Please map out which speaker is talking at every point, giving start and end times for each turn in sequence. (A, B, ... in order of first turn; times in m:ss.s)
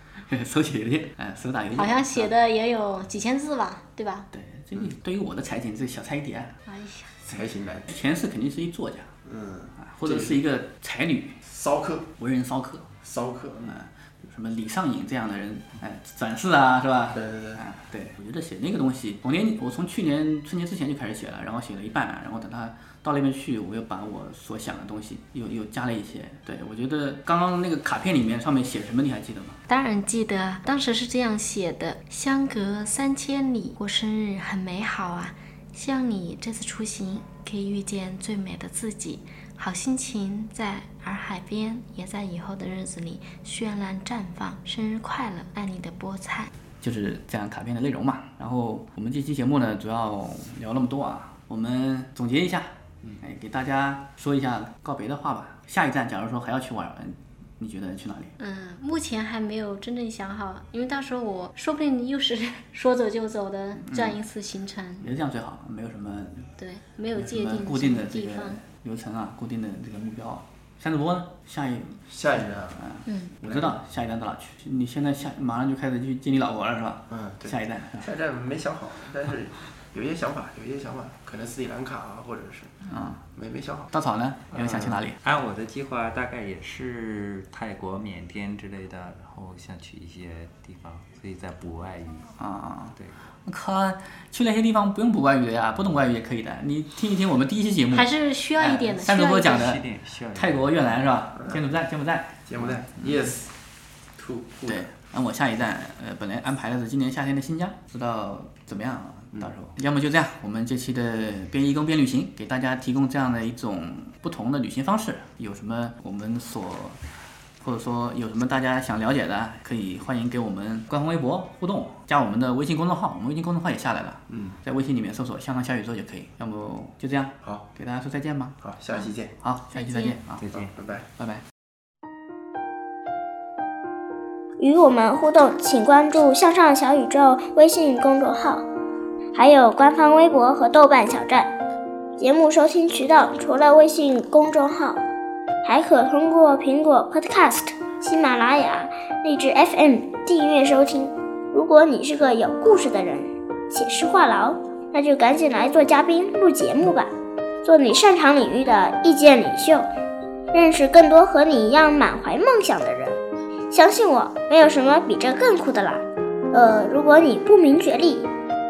0:00.3-0:02.3 A
0:01.8-0:04.3 B
0:04.3-0:06.6 A
0:06.7-0:07.1 B
0:07.2-0:08.0 C
0:07.9-0:09.1 A
0:09.2-0:10.4 C
0:09.8-0:11.4 A
0:11.4-0:12.1 C
0:12.2-0:12.9 A
0:13.0-0:13.8 C
0:13.6-0:29.6 A
0:17.1-0:17.6 C
0:29.7-0:46.5 B
0:46.8-0:58.3 A
0:58.4-1:05.1 B
1:03.8-1:04.2 A
1:05.0-1:06.5 A
1:06.6-1:08.6 B
1:07.2-1:12.0 A
1:12.1-1:12.8 C
1:12.8-1:18.1 A
1:13.1-1:13.3 B
1:13.4-1:13.8 C
1:17.1-1:22.7 C
1:22.9-1:23.2 A
1:23.3-1:23.9 C
1:23.9-1:25.2 A
1:24.5-1:25.0 C
1:25.2-1:32.3 D
1:32.4-1:43.1 A
1:37.9-1:39.6 B
1:39.2-1:41.0 D
1:42.5-1:43.5 C
1:44.2-1:44.9 C
1:44.7-1:57.0 A
1:57.6-2:10.7 A
2:04.3-2:04.6 C
2:08.6-2:09.3 C
2:09.7-2:10.2 B
2:10.4-2:10.7 D
2:10.6-2:11.1 C
2:11.2-2:11.4 A
2:14.6-2:18.6 E
2:19.3-2:21.5 E
2:22.2-2:25.0 E
2:25.6-2:37.1 E
2:37.6-2:39.9 E
2:40.5-2:43.2 E
2:43.7-2:48.2 E